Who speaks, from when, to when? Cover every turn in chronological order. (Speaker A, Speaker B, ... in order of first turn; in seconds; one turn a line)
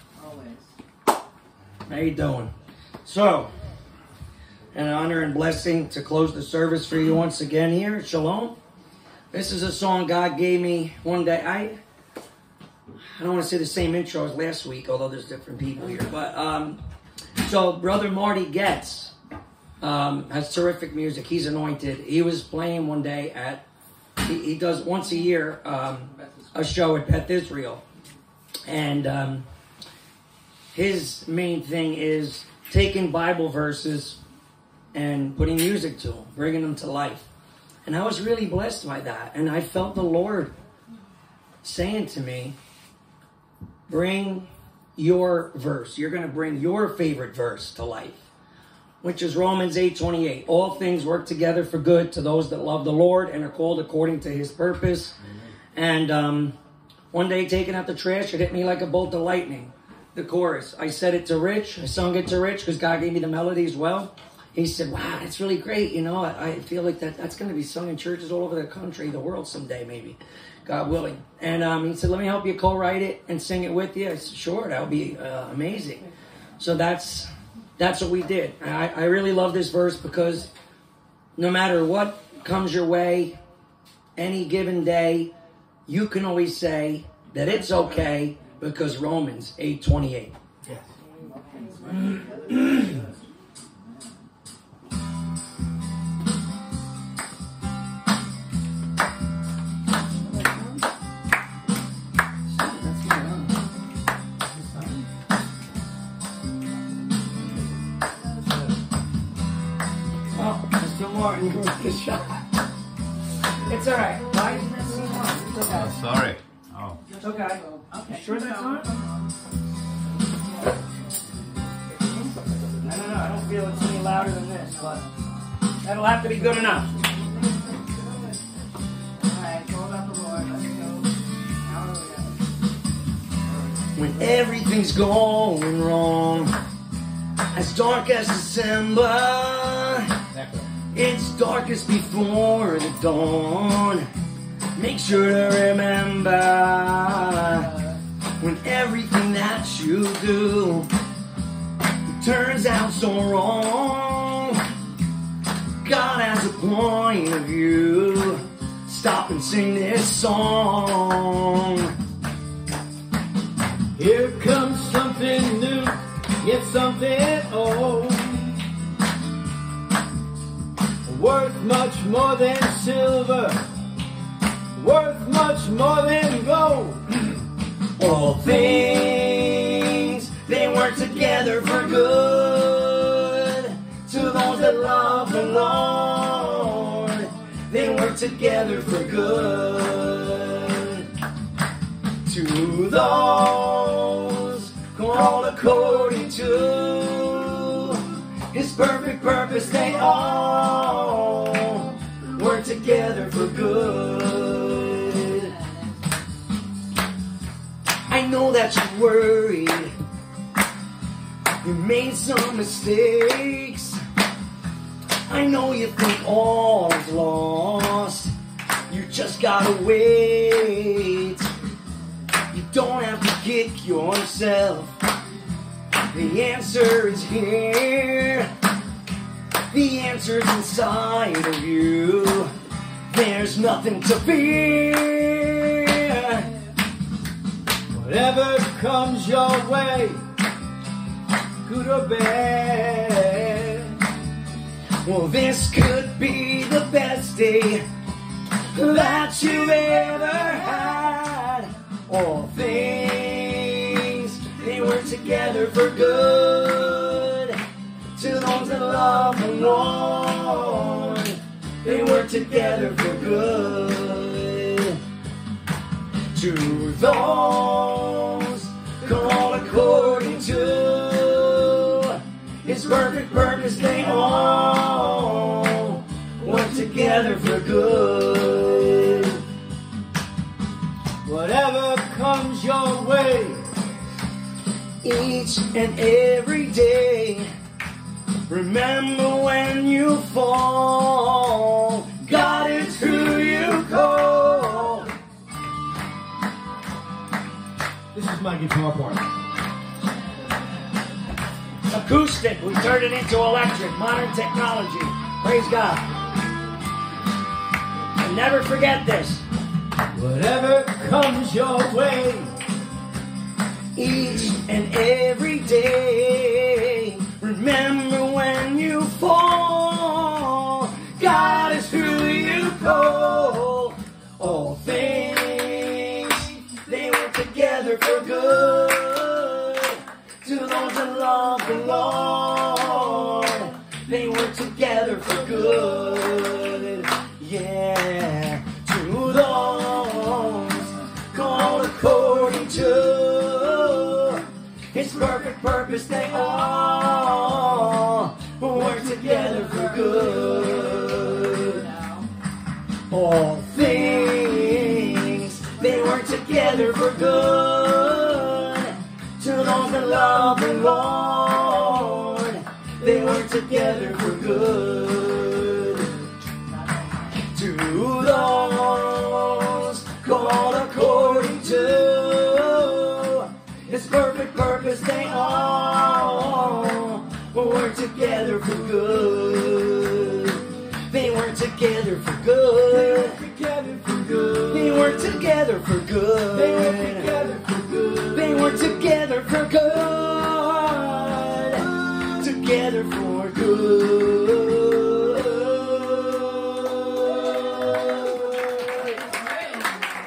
Speaker A: 0.2-0.6
Speaker B: 1.9-2.5
Speaker B: 3.0-3.5
Speaker B: 4.7-8.6
Speaker B: 9.3-11.8
Speaker B: 13.2-16.8
Speaker B: 17.4-19.1
Speaker B: 19.8-23.6
Speaker B: 24.2-27.8
Speaker B: 28.7-29.4
Speaker B: 30.7-34.2
Speaker B: 34.9-37.3
Speaker B: 37.8-40.5
Speaker B: 41.6-42.5
Speaker B: 43.9-48.3
Speaker B: 49.0-55.1
Speaker B: 55.7-56.5
Speaker B: 57.1-76.1
Speaker B: 76.6-80.5
Speaker B: 81.4-83.3
Speaker B: 84.2-85.3
Speaker B: 85.9-90.3
Speaker A: 91.4-92.6
Speaker B: 102.5-103.6
Speaker B: 110.3-112.3
Speaker B: 113.7-115.9
Speaker C: 115.7-116.4
Speaker B: 117.1-119.0
Speaker B: 122.8-125.0
Speaker B: 125.8-127.0
Speaker A: 129.2-131.1
Speaker A: 131.6-132.3
Speaker B: 133.9-136.5
Speaker B: 137.5-140.2
Speaker C: 140.3-140.6
Speaker B: 140.9-144.1
Speaker B: 144.8-147.8
Speaker B: 148.4-150.9
Speaker B: 152.1-154.6
Speaker B: 155.8-161.9
Speaker C: 163.9-168.7
Speaker C: 171.0-173.6
Speaker C: 174.8-177.3
Speaker B: 178.0-191.1
Speaker B: 192.2-205.6
Speaker B: 208.1-209.9
Speaker B: 211.6-214.0
Speaker B: 215.3-218.3
Speaker B: 218.9-221.5
Speaker B: 222.5-224.9
Speaker B: 226.1-228.5
Speaker B: 229.7-232.5
Speaker B: 233.1-236.5
Speaker C: 237.9-240.2
Speaker C: 241.6-244.0
Speaker B: 245.0-247.8
Speaker B: 248.7-257.6
Speaker B: 258.1-265.0
Speaker B: 266.3-279.4
Speaker C: 281.2-283.6
Speaker B: 285.0-287.5
Speaker B: 288.5-295.1
Speaker C: 298.1-299.3
Speaker B: 301.9-306.0
Speaker B: 308.2-309.4
Speaker C: 310.1-312.5
Speaker B: 313.9-351.9
Speaker B: 353.1-366.2
Speaker B: 367.5-383.4
Speaker C: 382.9-385.1
Speaker B: 384.7-387.3
Speaker C: 386.5-388.6
Speaker B: 388.3-399.2